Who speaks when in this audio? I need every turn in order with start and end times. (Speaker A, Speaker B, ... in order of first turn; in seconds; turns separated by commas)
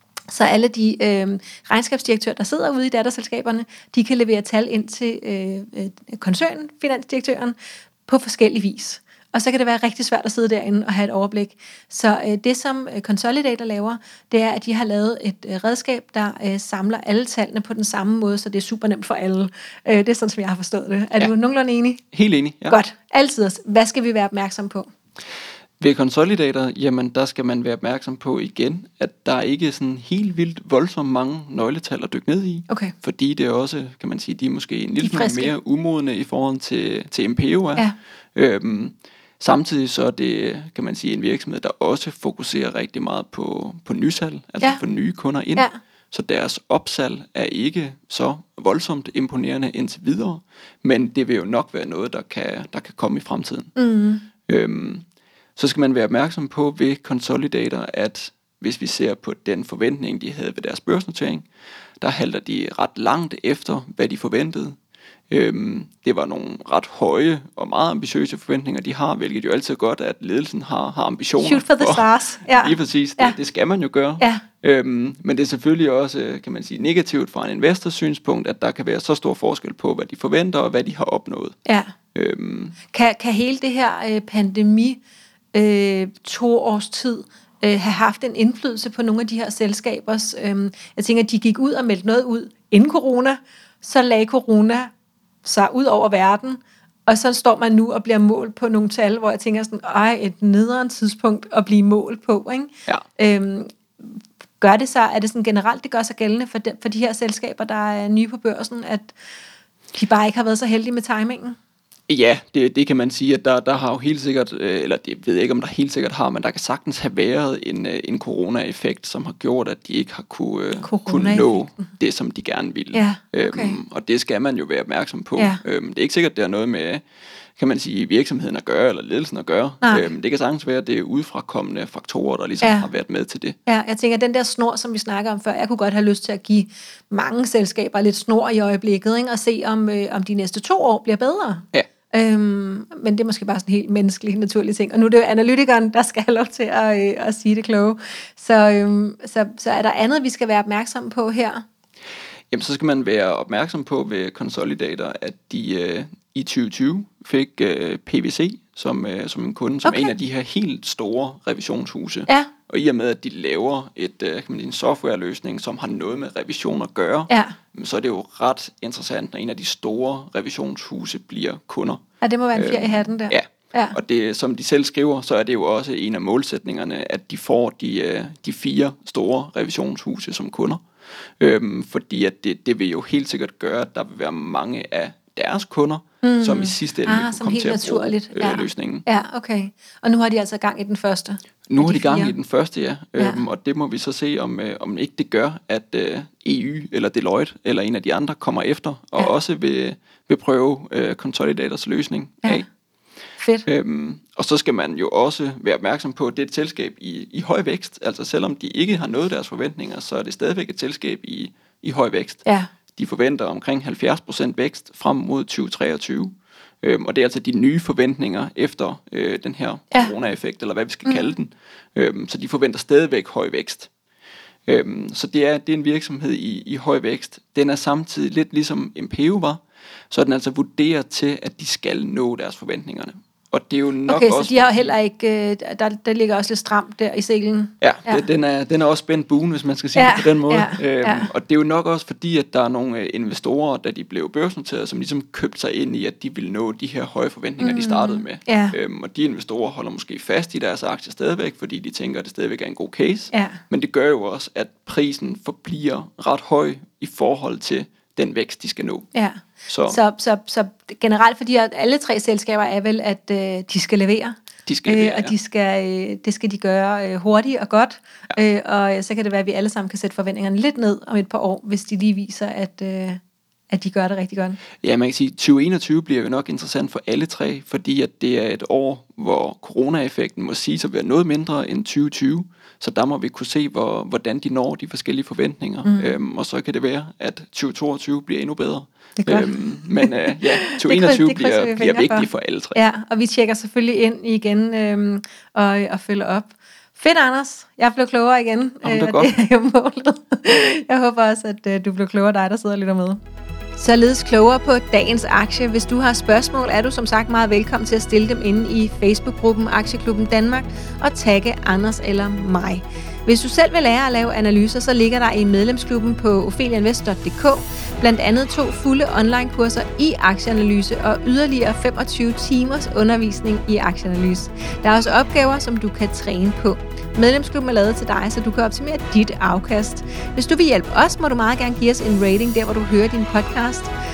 Speaker A: 0.3-22.0, Speaker B: 22.1-22.8, Speaker A: 22.7-24.9, Speaker B: 25.8-53.7, Speaker A: 32.7-32.9, Speaker A: 35.0-35.5, Speaker A: 53.8-54.3, Speaker B: 54.5-55.0, Speaker B: 55.6-61.5, Speaker B: 62.0-64.8, Speaker B: 65.3-81.6, Speaker A: 71.4-73.4, Speaker A: 81.7-82.0, Speaker B: 82.1-82.8, Speaker A: 82.9-85.0, Speaker A: 85.5-94.9, Speaker A: 95.4-109.2, Speaker A: 109.9-111.6, Speaker B: 112.1-127.0, Speaker A: 120.8-121.9, Speaker A: 122.9-123.8, Speaker B: 127.6-133.6, Speaker A: 132.6-132.9, Speaker A: 133.7-151.6, Speaker B: 152.5-172.0, Speaker A: 159.8-160.1, Speaker A: 167.3-167.6, Speaker A: 172.2-174.0, Speaker B: 172.5-180.8, Speaker B: 181.4-189.1, Speaker A: 186.2-192.3, Speaker B: 191.7-202.7, Speaker A: 193.2-193.4, Speaker A: 203.4-203.7, Speaker B: 203.7-212.4, Speaker B: 212.9-223.9, Speaker A: 221.1-221.3, Speaker B: 224.7-234.9, Speaker A: 234.1-238.3, Speaker B: 237.8-259.1, Speaker A: 240.0-241.3, Speaker A: 247.6-248.8, Speaker A: 253.3-253.6, Speaker A: 259.1-274.6, Speaker B: 259.7-260.0, Speaker B: 264.7-265.3, Speaker B: 274.8-292.8, Speaker A: 285.9-286.2, Speaker A: 289.2-303.2, Speaker B: 298.8-299.3, Speaker A: 303.8-333.9